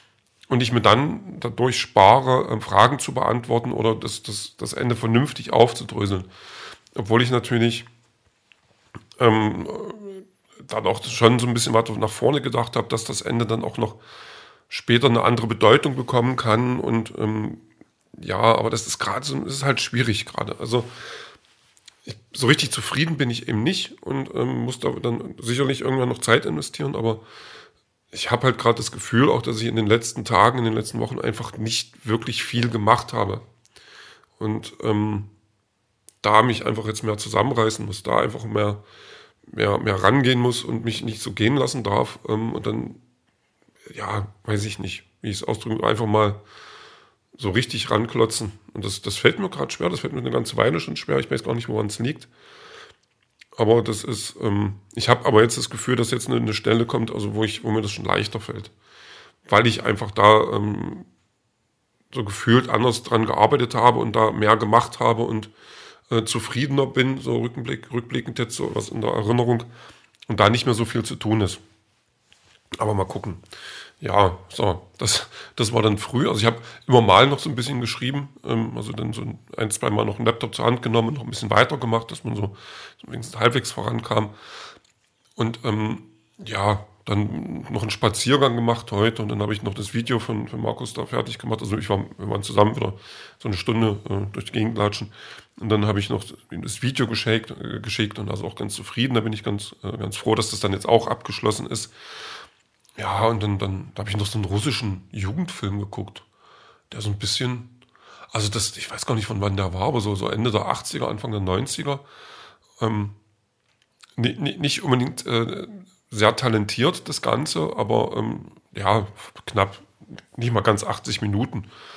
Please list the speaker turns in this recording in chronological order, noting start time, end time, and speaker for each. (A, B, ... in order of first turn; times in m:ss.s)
0:00.5-0:06.3 A
0:06.9-0:07.9 A
0:09.2-0:14.0 A
0:14.7-0:20.9 A
0:22.0-0:27.2 A
0:28.1-0:33.4 A
0:34.4-0:35.3 A
0:36.2-0:38.8 A
0:39.5-0:43.0 A
0:43.9-0:46.4 A
0:47.4-0:52.3 A
0:53.6-0:58.7 A
0:59.4-1:01.1 A
1:02.1-1:05.5 A
1:06.1-1:09.7 A
1:10.3-1:11.6 A
1:12.8-1:13.4 A
1:14.0-1:24.3 A
1:25.4-1:41.9 A
1:43.0-1:46.2 A
1:46.9-1:47.8 A
1:48.3-1:52.0 A
1:52.8-1:53.2 A
1:54.2-2:01.7 A